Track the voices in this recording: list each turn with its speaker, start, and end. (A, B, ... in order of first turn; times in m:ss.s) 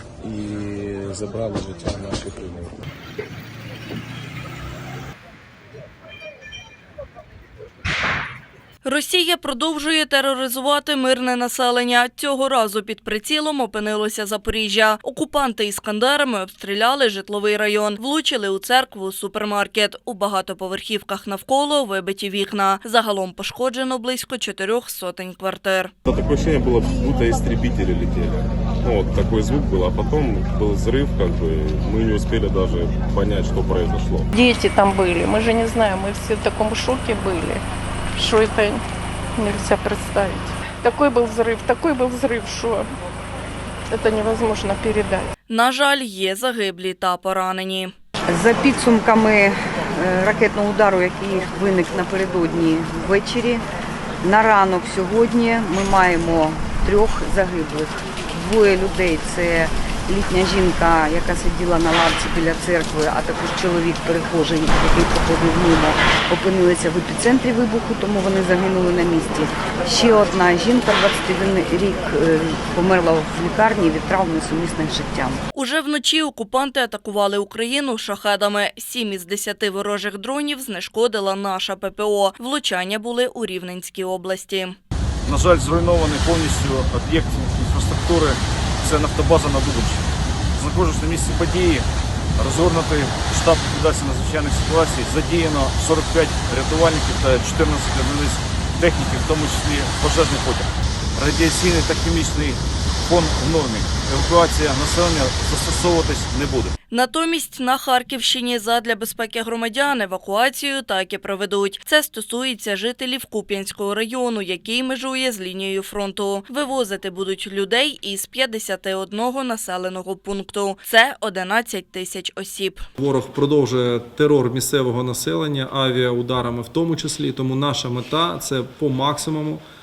0:00.2-0:02.7 A
0:08.8-0:25.9 B
0:26.0-0:34.3 C
0:34.3-0:37.6 D
0:38.2-0:38.8 D
0:39.4-0:42.9 D
0:43.9-0:45.3 D
0:45.5-0:47.9 B
0:48.3-0:53.6 E
0:54.2-1:15.4 E
1:15.5-1:24.8 B
1:25.3-1:31.9 F
1:32.4-1:46.7 F
1:46.9-2:02.8 B
2:03.0-2:09.6 G